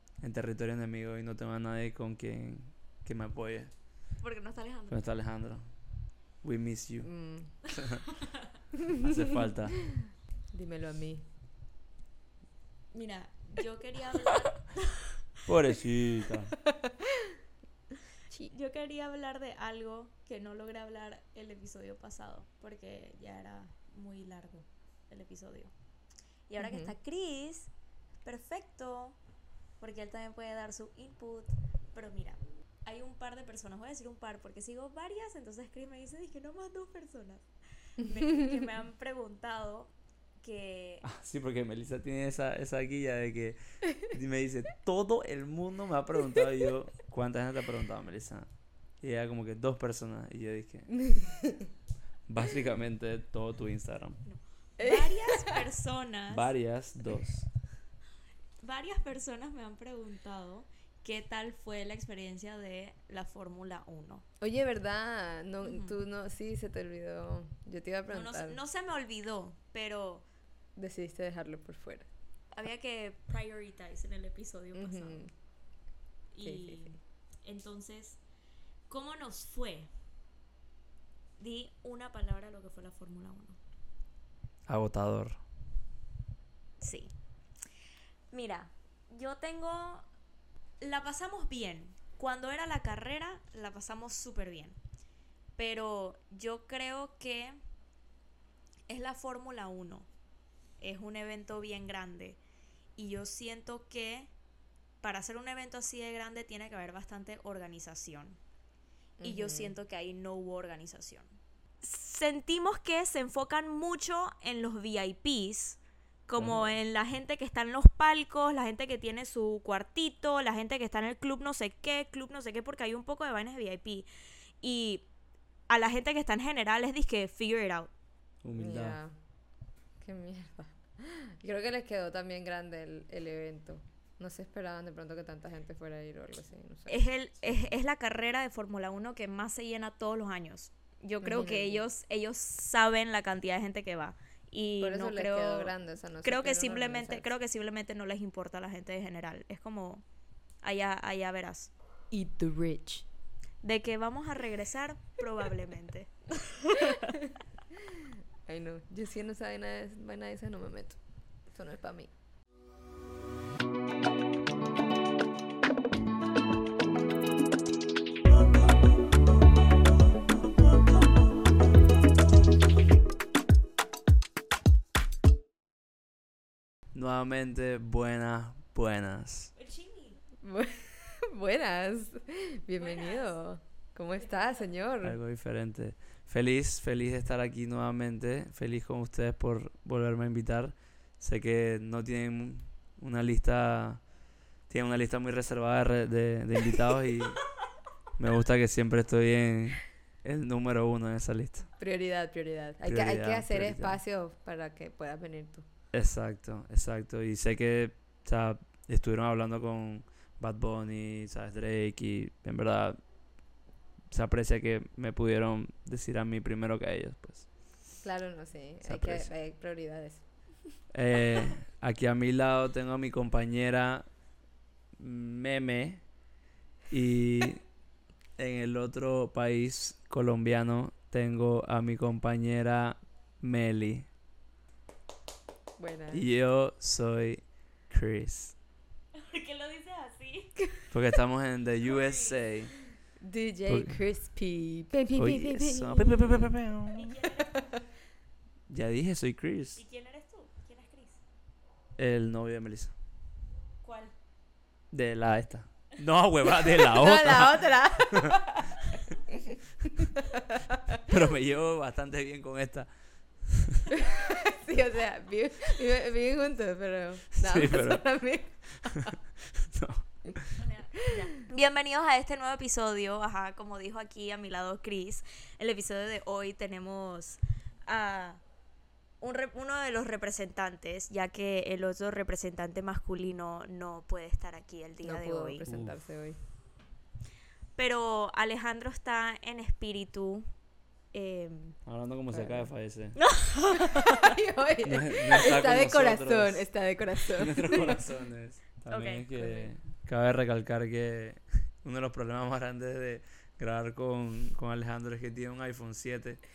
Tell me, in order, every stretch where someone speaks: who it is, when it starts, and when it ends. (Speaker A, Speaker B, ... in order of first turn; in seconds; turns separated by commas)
Speaker A: 0.2-3.7, Speaker B: 4.2-5.0, Speaker A: 4.9-5.7, Speaker A: 6.4-7.1, Speaker C: 7.0-7.5, Speaker A: 7.7-8.1, Speaker B: 8.0-8.5, Speaker C: 8.8-11.2, Speaker A: 8.9-9.8, Speaker B: 12.9-15.2, Speaker A: 15.4-16.6, Speaker C: 16.7-17.4, Speaker B: 18.4-25.7, Speaker B: 26.5-27.7, Speaker C: 26.6-26.9, Speaker B: 28.2-29.2, Speaker B: 29.8-37.5, Speaker B: 38.0-41.0, Speaker A: 41.0-48.5, Speaker A: 49.0-50.9, Speaker C: 50.9-51.7, Speaker A: 52.3-54.2, Speaker B: 54.3-56.5, Speaker C: 54.8-55.6, Speaker A: 56.3-57.5, Speaker B: 58.6-64.2, Speaker C: 64.4-68.6, Speaker B: 65.6-65.9, Speaker B: 68.1-70.2, Speaker C: 70.8-72.1, Speaker B: 72.5-75.2, Speaker C: 74.8-75.3, Speaker B: 76.3-78.2, Speaker C: 76.4-77.0, Speaker B: 78.9-79.9, Speaker B: 81.4-83.6, Speaker A: 84.7-85.4, Speaker B: 86.8-87.1, Speaker B: 88.3-90.1, Speaker B: 90.8-94.8, Speaker B: 95.6-97.6, Speaker B: 98.9-100.1, Speaker B: 100.8-102.4, Speaker B: 103.0-104.3, Speaker B: 105.0-108.4, Speaker C: 109.2-109.8, Speaker B: 109.2-124.1, Speaker A: 116.4-116.8, Speaker B: 124.6-125.0, Speaker B: 125.7-127.9, Speaker A: 128.4-129.0, Speaker C: 128.6-129.1, Speaker C: 130.0-137.1, Speaker B: 136.9-150.0, Speaker C: 141.2-141.8, Speaker C: 144.8-147.3, Speaker B: 150.6-151.7, Speaker C: 152.1-153.1, Speaker B: 153.6-157.2, Speaker C: 156.8-161.0, Speaker C: 161.5-162.1, Speaker A: 176.9-179.5, Speaker B: 179.6-180.2, Speaker C: 180.4-185.2, Speaker B: 182.8-183.4, Speaker B: 184.2-184.7, Speaker A: 185.0-194.0, Speaker A: 194.7-197.4, Speaker A: 198.2-201.7, Speaker C: 201.8-205.7, Speaker A: 202.8-204.0, Speaker A: 205.9-213.0, Speaker A: 214.1-217.5, Speaker C: 218.0-220.2, Speaker A: 218.8-219.3, Speaker A: 220.9-224.1, Speaker A: 225.0-226.0, Speaker A: 226.9-227.6, Speaker A: 228.4-234.1, Speaker C: 235.8-236.2, Speaker A: 236.1-238.6, Speaker B: 239.1-240.7, Speaker A: 240.9-242.7, Speaker B: 241.8-242.8, Speaker C: 243.2-246.5, Speaker A: 243.7-244.0, Speaker A: 245.2-247.2, Speaker B: 246.9-247.7, Speaker A: 248.7-249.8, Speaker B: 249.8-251.2, Speaker A: 252.0-252.9, Speaker B: 253.8-254.1, Speaker A: 254.9-258.4, Speaker C: 256.6-261.0, Speaker A: 261.0-262.9, Speaker A: 263.5-263.9, Speaker C: 263.9-269.2, Speaker A: 267.3-268.1, Speaker A: 268.9-270.6, Speaker B: 270.6-278.4, Speaker C: 271.1-271.4, Speaker B: 279.2-285.6, Speaker C: 285.0-286.4, Speaker A: 285.6-286.0, Speaker B: 287.8-290.5, Speaker B: 291.1-291.8, Speaker A: 291.9-293.2, Speaker C: 292.3-292.7, Speaker B: 293.2-294.4, Speaker C: 293.7-298.1, Speaker A: 294.8-296.7, Speaker A: 297.2-306.4, Speaker B: 298.9-299.2, Speaker C: 299.4-299.7